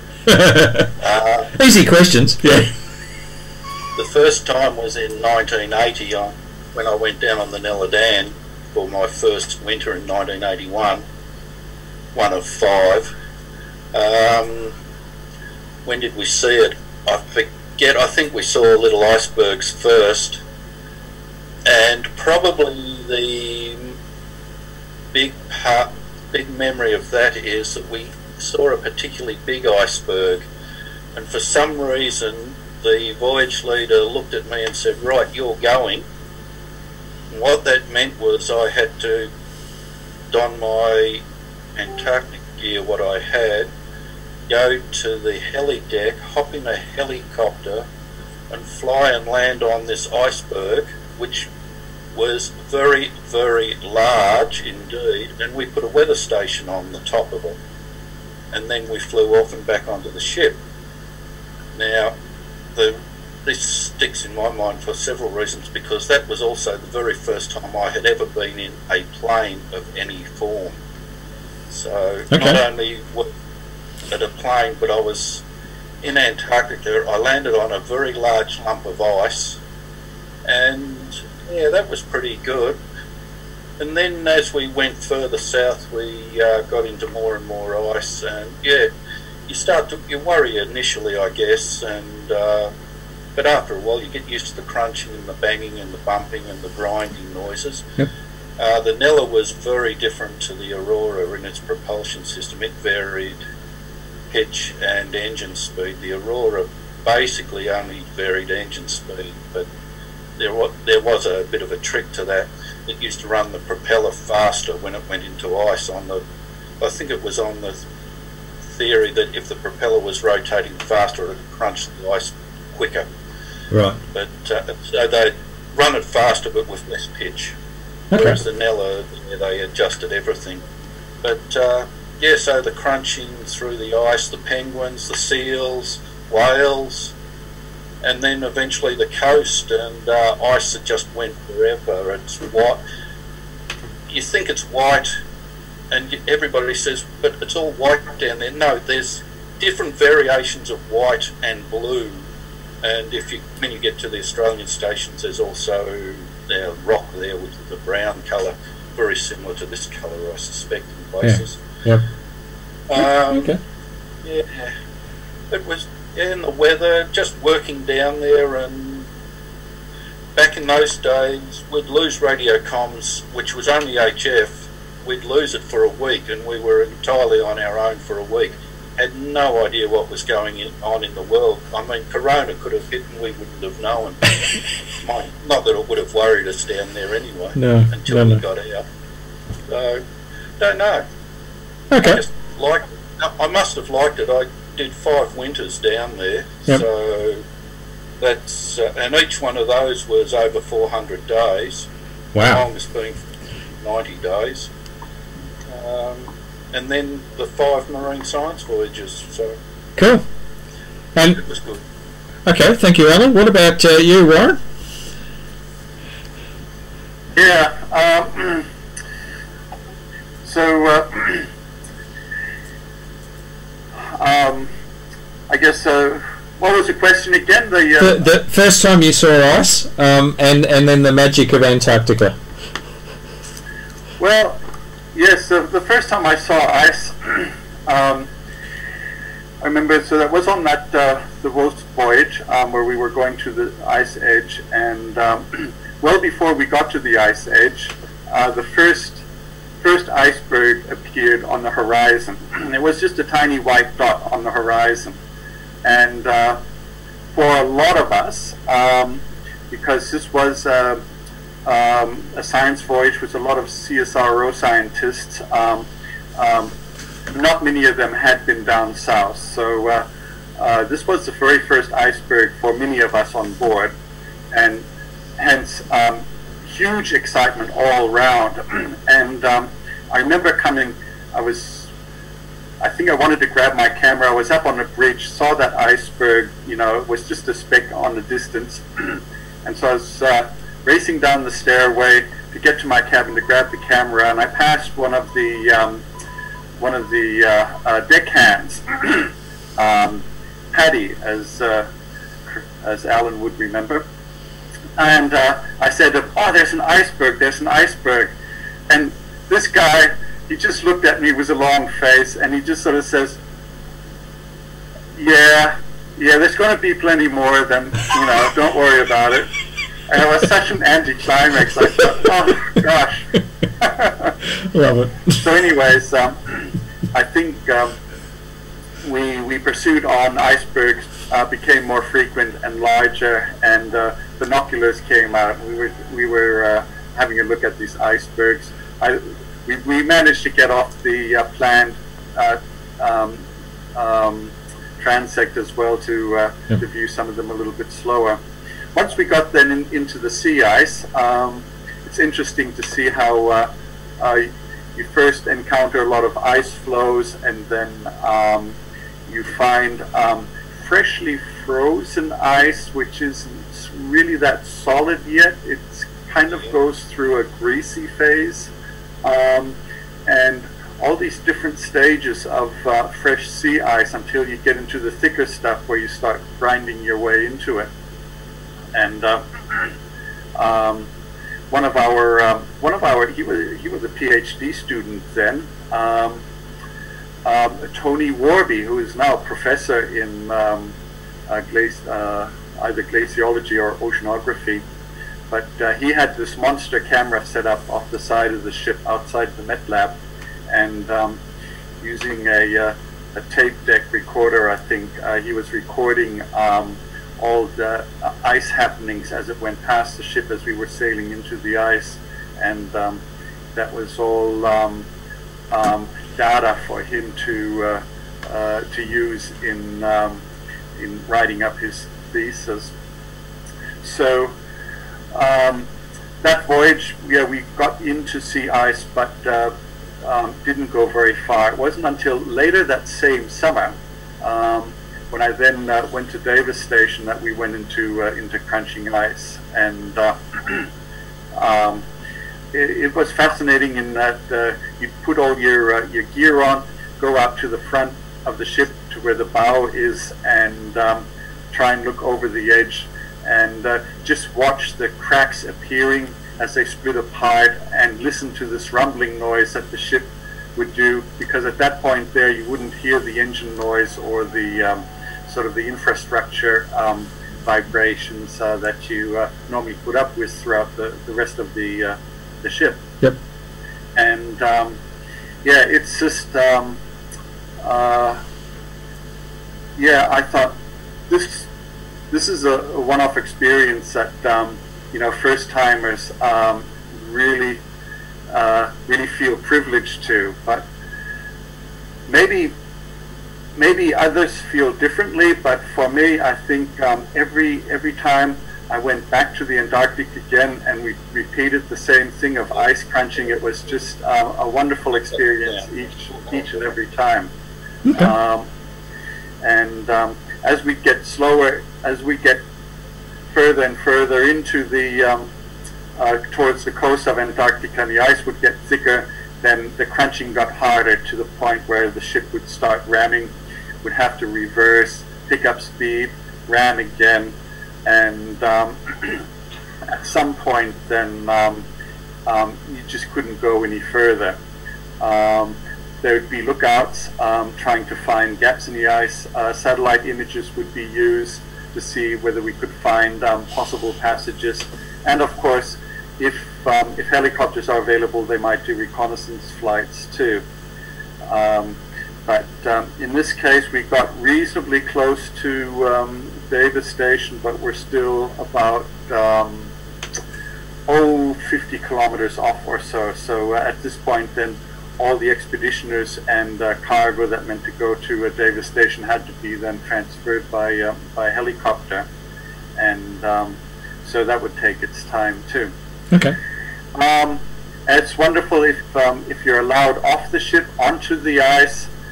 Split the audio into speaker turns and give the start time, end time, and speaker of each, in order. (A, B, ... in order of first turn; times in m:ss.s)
0:00.3-0:00.9 A
0:01.0-0:01.5 B
0:01.5-0:02.7 A
0:04.0-0:11.0 B
0:12.1-0:13.1 B
0:13.9-0:14.7 B
0:15.8-0:20.4 B
0:21.6-0:23.9 B
0:25.1-0:30.4 B
0:31.1-0:36.0 B
0:37.3-0:39.3 B
0:40.3-0:41.2 B
0:41.8-0:43.7 B
0:44.5-0:47.8 B
0:48.5-0:51.5 B
0:52.1-0:57.6 B
0:58.5-1:00.6 B
1:01.7-1:02.1 B
1:02.7-1:10.8 B
1:11.7-1:13.3 B
1:12.3-1:12.6 A
1:14.1-1:15.4 B
1:16.0-1:19.6 B
1:20.4-1:22.8 B
1:23.8-1:28.9 B
1:29.5-1:32.7 B
1:33.4-1:37.8 B
1:38.6-1:43.4 B
1:44.3-1:49.7 B
1:50.4-1:56.2 B
1:56.8-1:57.8 B
1:58.7-2:03.1 B
2:03.7-2:04.0 A
2:04.1-2:07.5 B
2:08.1-2:08.4 A
2:08.1-2:10.6 B
2:11.2-2:17.1 B
2:18.0-2:22.8 B
2:24.1-2:25.1 B
2:25.9-2:32.2 B
2:32.8-2:41.6 B
2:41.2-2:42.0 A
2:42.9-2:43.6 B
2:42.9-2:43.6 A
2:44.2-2:44.7 B
2:45.5-2:49.1 B
2:50.4-3:04.3 B
3:05.0-3:08.8 B
3:07.6-3:08.4 A
3:09.7-3:10.0 B
3:10.6-3:11.0 B
3:11.9-3:12.2 A
3:12.0-3:17.4 B
3:18.2-3:21.9 B
3:22.3-3:22.6 A
3:22.4-3:23.2 B
3:23.8-3:24.7 B
3:25.7-3:29.6 B
3:30.0-3:30.2 A
3:31.1-3:31.4 A
3:31.4-3:31.8 B
3:32.4-3:34.6 A
3:37.4-3:38.7 C
3:40.4-3:41.5 C
3:44.1-3:44.7 C
3:45.5-3:48.2 C
3:48.0-3:52.4 A
3:54.2-3:54.6 C
3:55.1-3:58.3 C
3:59.6-4:09.2 C
4:09.8-4:15.2 C
4:15.8-4:16.6 C
4:17.3-4:21.0 C
4:21.6-4:26.7 C
4:27.3-4:30.1 C
4:30.6-4:33.9 C
4:34.5-4:34.8 C
4:35.4-4:41.9 C
4:42.8-4:56.0 C
4:56.8-5:01.9 C
5:02.5-5:04.0 C
5:05.0-5:08.3 C
5:08.9-5:13.4 C
5:15.2-5:19.5 C
5:20.1-5:23.3 C
5:23.8-5:24.3 C
5:24.7-5:25.3 A
5:25.3-5:28.0 C
5:29.0-5:43.4 C
5:44.0-5:48.4 C
5:48.9-5:53.7 C
5:54.2-5:58.8 C
5:59.3-6:08.7 C
6:09.2-6:17.9 C
6:18.9-6:19.9 C
6:20.6-6:21.1 C
6:21.7-6:26.4 C
6:27.4-6:30.9 C
6:31.5-6:34.8 C
6:35.5-6:40.2 C
6:40.7-6:41.4 C
6:42.0-6:53.2 C
6:53.8-6:55.1 C
6:55.7-7:00.4 C
7:01.0-7:02.9 C
7:04.0-7:04.5 C
7:05.3-7:05.9 C
7:06.4-7:20.9 C
7:21.6-7:22.0 C
7:22.7-7:53.0 C
7:54.2-7:55.0 C
7:55.6-7:57.0 C
7:57.8-7:58.4 C
8:00.0-8:00.8 C
8:01.3-8:01.7 C
8:02.3-8:07.8 C
8:08.5-8:10.9 C
8:12.3-8:12.7 C
8:13.8-8:27.5 C
8:28.0-8:28.3 A
8:28.2-8:28.7 C
8:29.6-8:32.6 C
8:33.5-8:35.5 C
8:36.2-8:49.4 C
8:50.1-8:51.8 C
8:52.5-8:54.6 C
8:55.2-9:10.6 C
9:11.5-9:19.9 C
9:21.1-9:32.2 C
9:33.0-9:35.9 C
9:37.1-9:42.1 C